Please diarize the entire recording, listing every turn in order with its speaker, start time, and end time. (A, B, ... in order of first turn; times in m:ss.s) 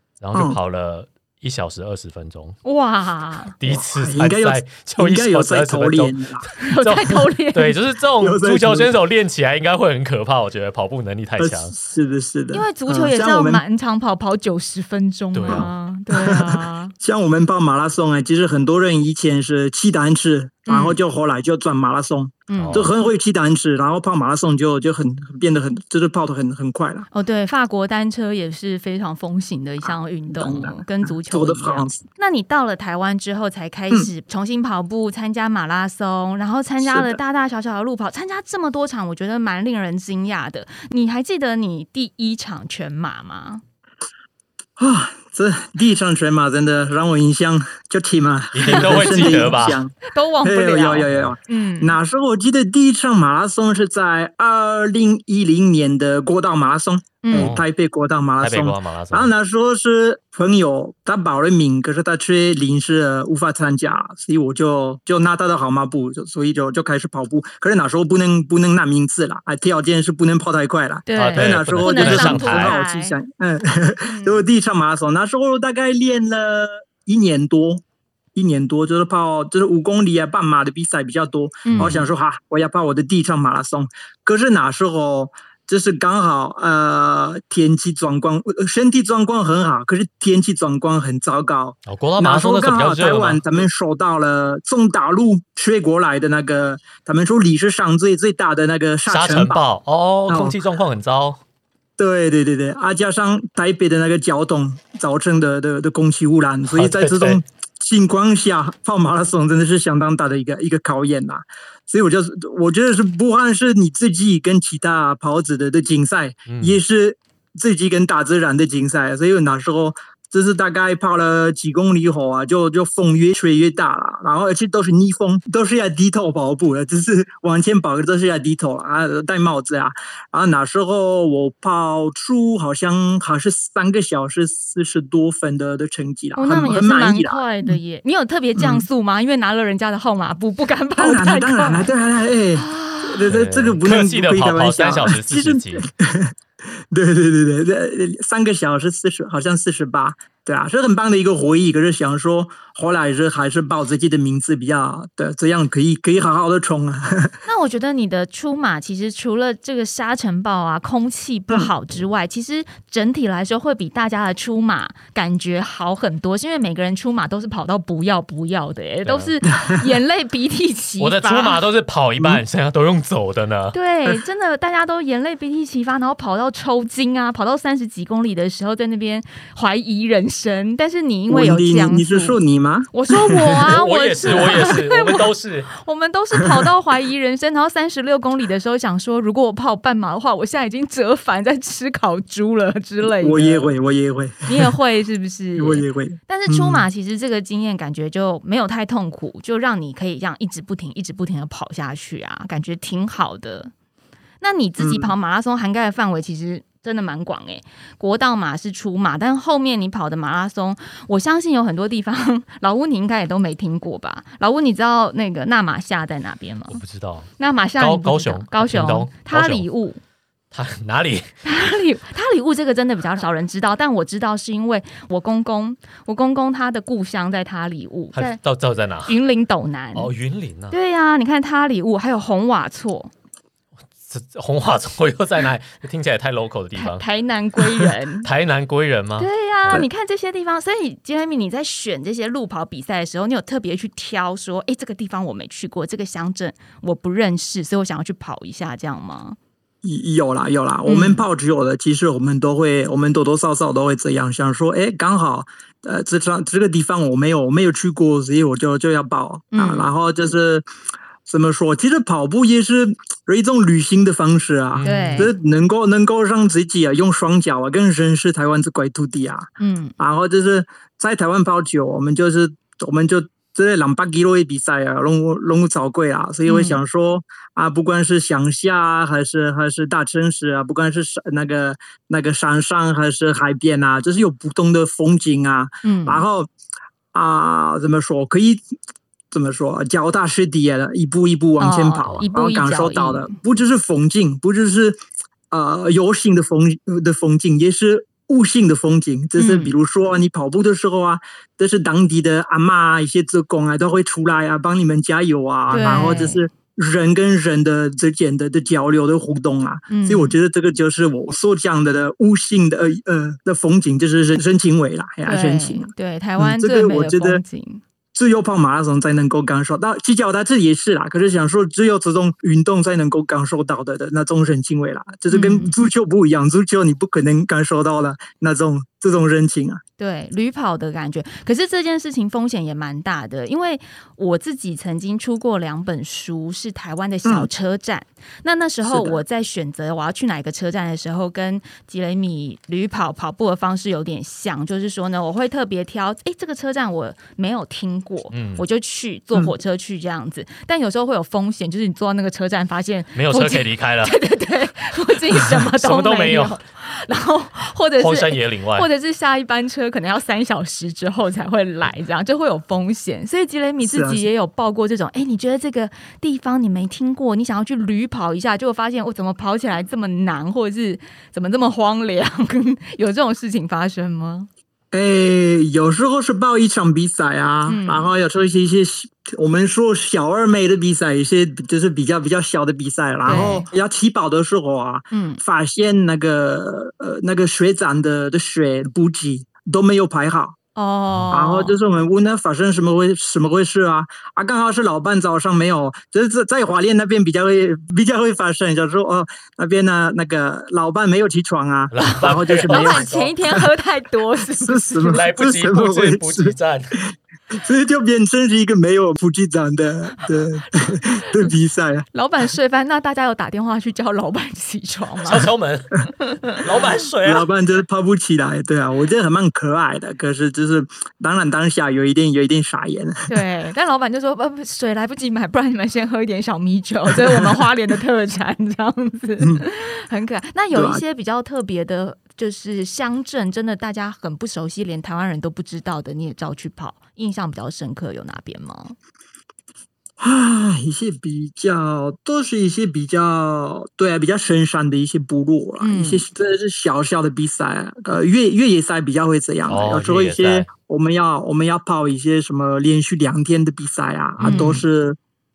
0:00.2-0:02.6 A
0:00.3-0:00.6 B
0:02.6-0:03.5 C
0:03.6-0:11.7 A
0:03.6-0:06.5 B
0:06.6-0:07.8 C
0:08.2-0:08.9 B
0:11.4-0:13.6 B
0:12.5-0:16.9 C
0:15.3-0:15.7 A
0:15.5-0:27.1 B
0:20.7-0:21.0 C
0:22.5-0:22.9 C
0:22.6-0:22.9 A
0:27.1-0:43.6 C
0:30.3-0:32.0 B
0:36.8-0:37.2 B
0:44.8-1:17.8 B
0:48.5-0:49.8 A
0:48.7-0:52.0 C
0:51.1-0:51.3 A
0:57.2-0:57.5 C
0:57.3-0:57.6 A
0:58.4-0:59.3 A
1:11.1-1:13.2 C
1:11.2-1:12.8 A
1:14.0-1:14.4 C
1:18.3-1:39.6 B
1:21.6-1:22.0 C
1:21.7-1:22.0 A
1:31.9-1:33.4 A
1:39.1-1:41.4 A
1:40.3-1:40.6 B
1:42.0-2:17.8 B
1:46.7-1:47.4 A
1:56.5-1:56.8 A
2:16.4-2:21.9 C
2:18.6-2:18.8 B
2:21.0-2:26.3 B
2:22.5-2:23.3 C
2:23.3-2:25.9 A
2:26.9-2:37.4 B
2:37.4-2:51.6 C
2:49.0-2:49.3 A
2:51.0-2:53.8 A
2:53.7-3:02.4 C
3:01.3-3:03.7 B
3:02.9-3:13.7 C
3:03.7-3:05.7 A
3:04.3-3:04.7 B
3:13.0-3:14.7 B
3:14.4-3:23.7 C
3:15.6-3:16.9 B
3:24.4-3:36.8 C
3:24.8-3:25.1 B
3:36.7-3:39.6 A
3:37.4-3:40.0 C
3:40.5-3:41.3 A
3:41.4-3:48.4 C
3:48.1-3:49.2 A
3:49.0-3:50.1 C
3:49.9-3:50.8 A
3:50.7-3:53.1 C
3:54.1-3:57.0 A
3:56.8-3:58.3 C
3:58.2-3:59.8 A
3:59.2-4:09.4 C
4:09.8-4:20.6 B
4:10.8-4:11.2 C
4:19.5-4:19.9 C
4:21.2-4:29.5 B
4:24.7-4:25.3 A
4:24.8-4:25.3 C
4:29.6-4:29.9 C
4:30.0-4:46.5 B
4:36.4-4:36.8 C
4:45.8-4:46.2 C
4:47.1-4:48.6 B
4:49.3-5:17.4 B
4:51.6-4:53.3 C
4:59.4-4:59.7 C
5:05.7-5:06.4 C
5:09.9-5:10.3 C
5:15.2-5:17.8 C
5:18.1-5:29.8 B
5:25.3-5:25.7 C
5:30.0-6:14.5 C
5:37.2-5:37.5 B
5:38.8-5:39.2 B
5:48.3-5:48.6 A
5:53.1-5:54.1 A
5:55.4-5:56.6 A
5:58.0-5:58.9 A
6:03.8-6:04.2 B
6:14.9-6:30.6 B
6:17.7-6:18.1 C
6:23.2-6:23.7 C
6:25.1-6:25.4 C
6:30.8-6:31.8 C
6:31.3-6:43.6 B
6:41.9-6:43.3 A
6:42.7-6:45.2 C
6:44.5-6:52.0 B
6:45.1-6:47.0 A
6:50.9-6:51.5 C
6:52.1-6:55.5 C
6:55.2-6:57.5 A
6:56.1-6:56.6 C
6:57.2-7:03.4 B
7:03.3-7:19.0 C
7:07.1-7:07.7 B
7:10.7-7:11.0 B
7:20.2-7:35.2 B
7:25.8-7:26.2 C
7:29.7-7:30.7 A
7:34.4-7:34.7 A
7:34.4-7:34.8 C